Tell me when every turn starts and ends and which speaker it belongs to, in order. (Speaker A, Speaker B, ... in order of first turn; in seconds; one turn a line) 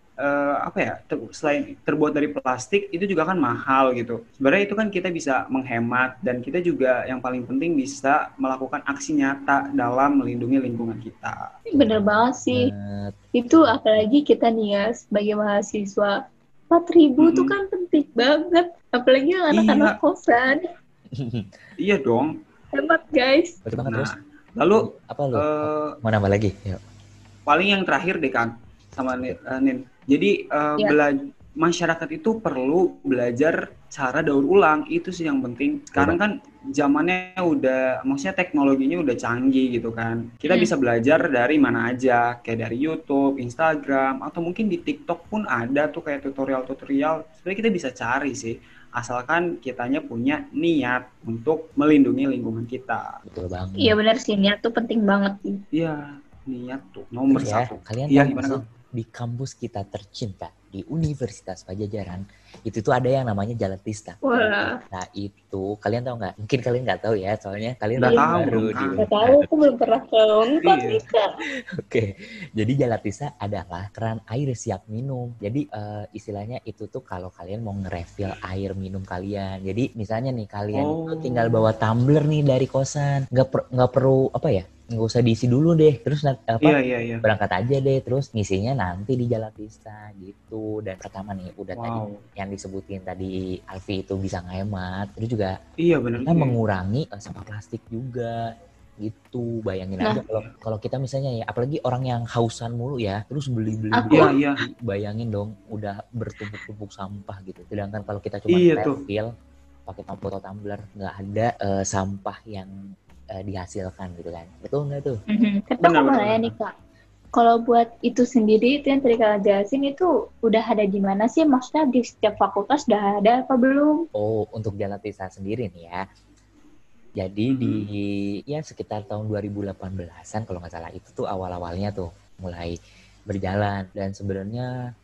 Speaker A: 0.2-11.4
Speaker B: 11.7-12.7
Speaker C: 11.8-14.1
Speaker B: 13.3-16.1
Speaker B: 16.7-20.6
Speaker A: 17.2-17.5
Speaker A: 19.5-20.0
Speaker C: 21.2-21.5
Speaker A: 21.8-22.3
Speaker B: 22.7-23.6
Speaker C: 23.6-26.8
Speaker A: 23.8-25.9
Speaker A: 27.5-53.0
Speaker C: 53.3-54.0
Speaker B: 53.8-55.6
Speaker A: 55.7-58.6
Speaker C: 57.3-69.5
Speaker B: 64.2-64.8
Speaker A: 68.0-69.0
Speaker B: 68.0-71.3
Speaker A: 70.6-71.0
Speaker C: 71.9-95.5
Speaker A: 80.7-81.7
Speaker A: 86.6-87.2
Speaker A: 91.8-92.2
Speaker A: 95.8-96.6
Speaker C: 96.2-98.3
Speaker C: 99.0-109.3
Speaker B: 104.0-104.3
Speaker A: 104.1-104.6
Speaker A: 108.5-109.0
Speaker C: 109.9-112.7
Speaker C: 113.4-115.2
Speaker B: 115.3-116.7
Speaker A: 115.8-116.5
Speaker B: 117.3-124.0
Speaker C: 124.2-126.0
Speaker C: 127.2-132.8
Speaker A: 127.5-127.9
Speaker C: 133.3-134.7